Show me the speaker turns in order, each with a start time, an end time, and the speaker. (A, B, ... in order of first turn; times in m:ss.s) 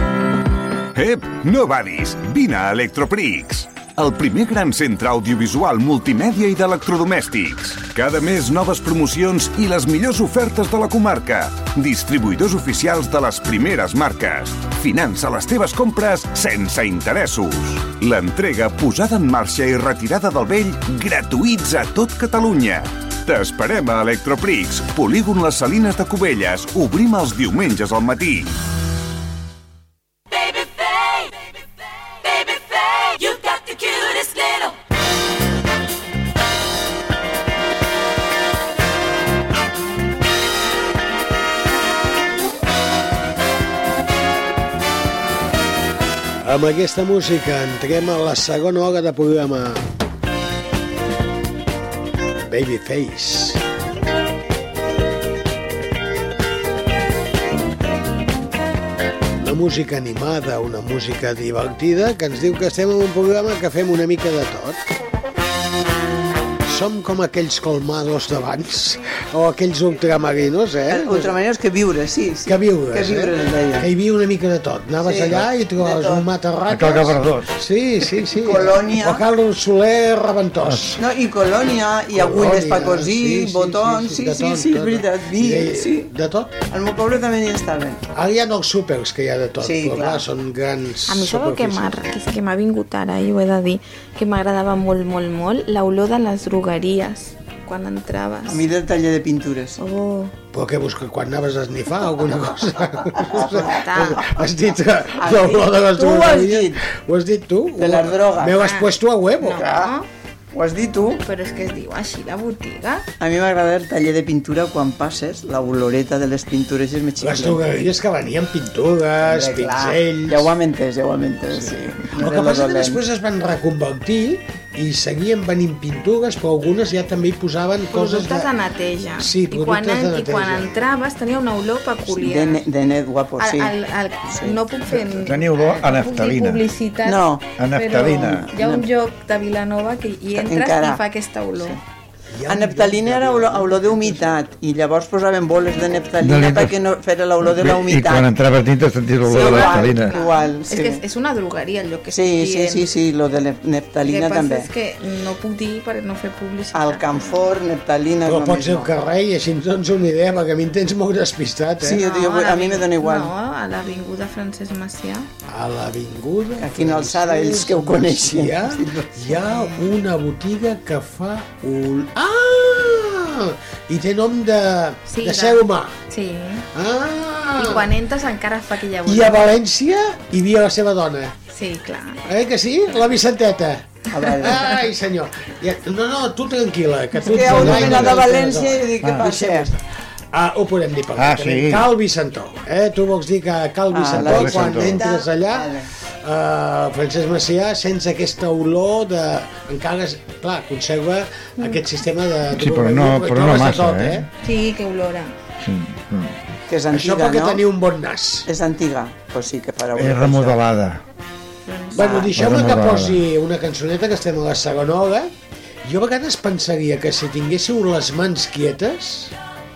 0:01.0-0:28.5 A
0:46.4-0:49.8 B
0:52.5-0:53.6 B
0:59.4-1:04.8 B
1:06.7-1:11.3 B
1:10.9-1:13.9 C
1:12.5-1:21.0 B
1:15.0-1:16.2 C
1:16.7-1:17.6 D
1:18.4-1:19.2 C
1:21.0-1:26.1 C
1:22.1-1:26.5 B
1:26.7-1:28.0 C
1:28.1-1:32.0 B
1:29.6-1:30.2 C
1:31.1-1:38.6 E
1:38.5-1:39.8 C
1:39.8-1:40.3 E
1:40.5-1:49.6 B
1:43.3-1:44.2 C
1:43.7-1:44.4 E
1:45.2-1:46.8 C
1:47.8-1:48.6 C
1:48.6-1:48.9 E
1:49.4-1:50.1 E
1:49.5-1:49.9 C
1:50.5-1:51.2 C
1:51.2-1:53.0 E
1:53.2-1:57.6 C
1:57.2-2:00.5 B
1:59.3-2:03.0 C
2:01.6-2:08.5 B
2:07.9-2:12.6 E
2:09.2-2:10.7 B
2:12.1-2:13.8 C
2:13.4-2:17.2 E
2:14.3-2:14.6 C
2:15.2-2:16.6 D
2:17.0-2:17.4 C
2:17.6-2:18.5 D
2:17.7-2:21.8 E
2:18.6-2:18.9 C
2:20.3-2:21.0 C
2:22.3-2:24.5 B
2:22.5-2:28.3 C
2:26.2-2:26.8 D
2:27.4-2:30.1 D
2:29.3-2:31.0 C
2:29.3-2:32.8 E
2:32.1-2:34.7 C
2:34.1-2:37.5 E
2:36.7-2:38.9 C
2:38.2-2:42.0 B
2:41.8-2:43.3 C
2:42.0-2:45.3 E
2:45.5-2:56.0 B
2:46.6-2:49.1 C
2:55.1-2:56.7 E
2:56.8-2:57.9 B
2:57.6-2:59.5 E
2:59.0-3:01.4 B
3:01.5-3:02.2 E
3:02.3-3:15.7 B
3:04.1-3:04.6 C
3:07.2-3:09.7 C
3:07.5-3:08.2 D
3:11.2-3:11.9 D
3:13.9-3:15.9 C
3:14.1-3:15.0 D
3:16.2-3:24.3 B
3:22.5-3:24.3 D
3:24.4-3:25.3 E
3:25.6-3:26.4 D
3:26.7-3:27.6 C
3:26.9-3:28.5 B
3:28.5-3:30.6 C
3:30.0-3:31.0 D
3:31.7-3:32.0 E
3:32.0-3:32.3 C
3:32.0-3:35.3 B
3:32.3-3:33.2 D
3:35.8-3:39.3 B